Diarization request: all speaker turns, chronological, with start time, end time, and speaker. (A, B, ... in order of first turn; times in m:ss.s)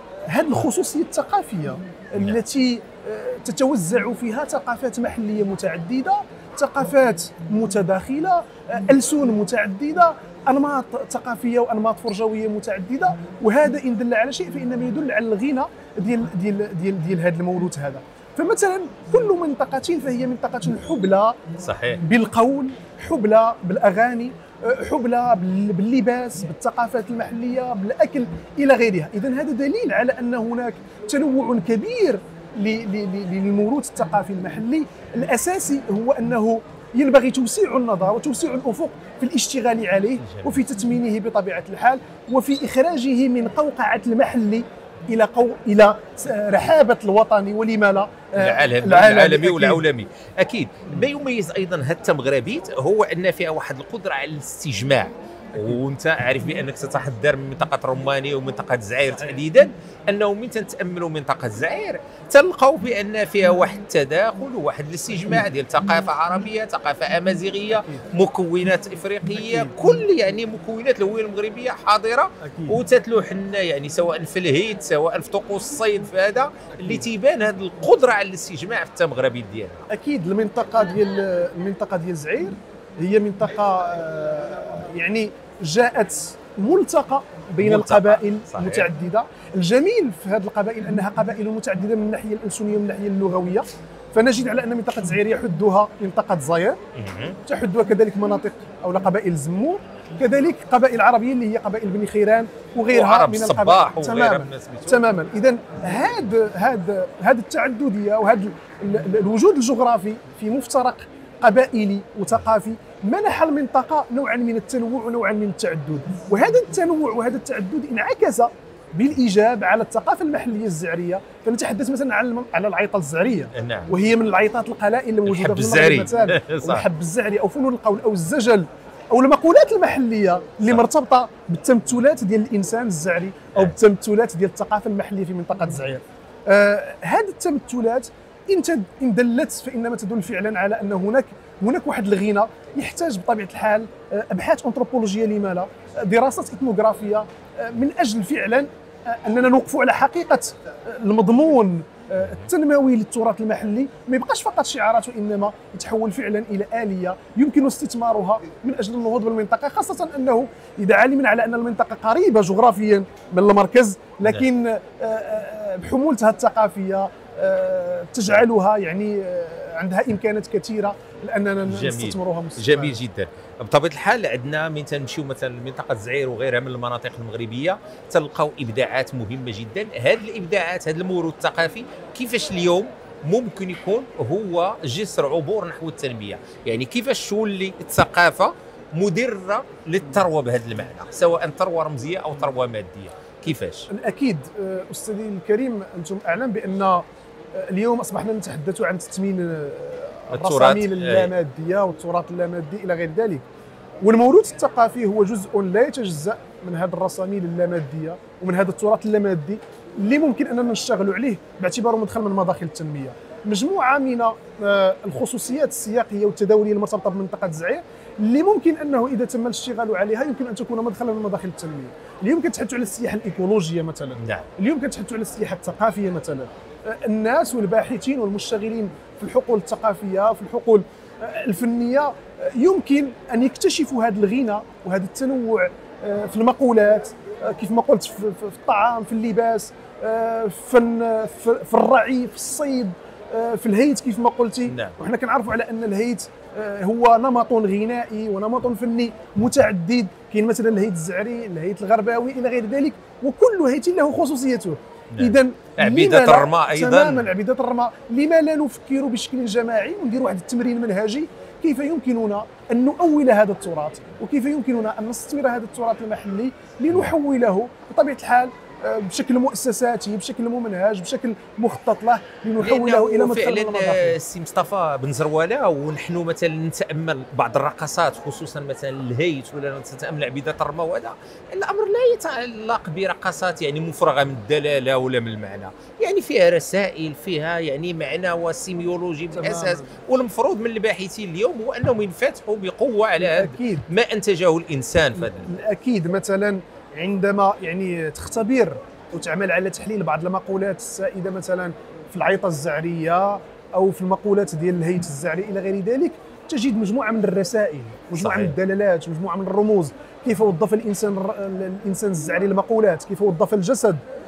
0:00.3-0:21.4 A
0:21.6-0:22.0 B
0:22.0-0:49.8 A
0:40.2-0:40.6 B
0:48.4-1:19.8 B
1:09.4-1:09.8 A
1:12.4-1:12.8 A
1:19.9-1:36.8 A
1:27.6-1:28.9 B
1:37.0-1:37.4 B
1:37.5-2:53.0 A
1:42.9-1:45.0 B
2:03.5-2:03.9 B
2:05.3-2:06.8 B
2:51.7-3:13.9 B
3:13.9-3:23.4 A
3:20.3-3:21.3 B
3:24.0-4:34.2 A
3:44.2-3:44.5 B
4:04.7-4:05.0 B
4:15.1-4:17.3 B
4:32.6-4:55.6 B
4:49.3-4:49.9 A
4:53.2-4:53.9 A
4:55.2-5:14.0 A
5:08.2-5:08.6 B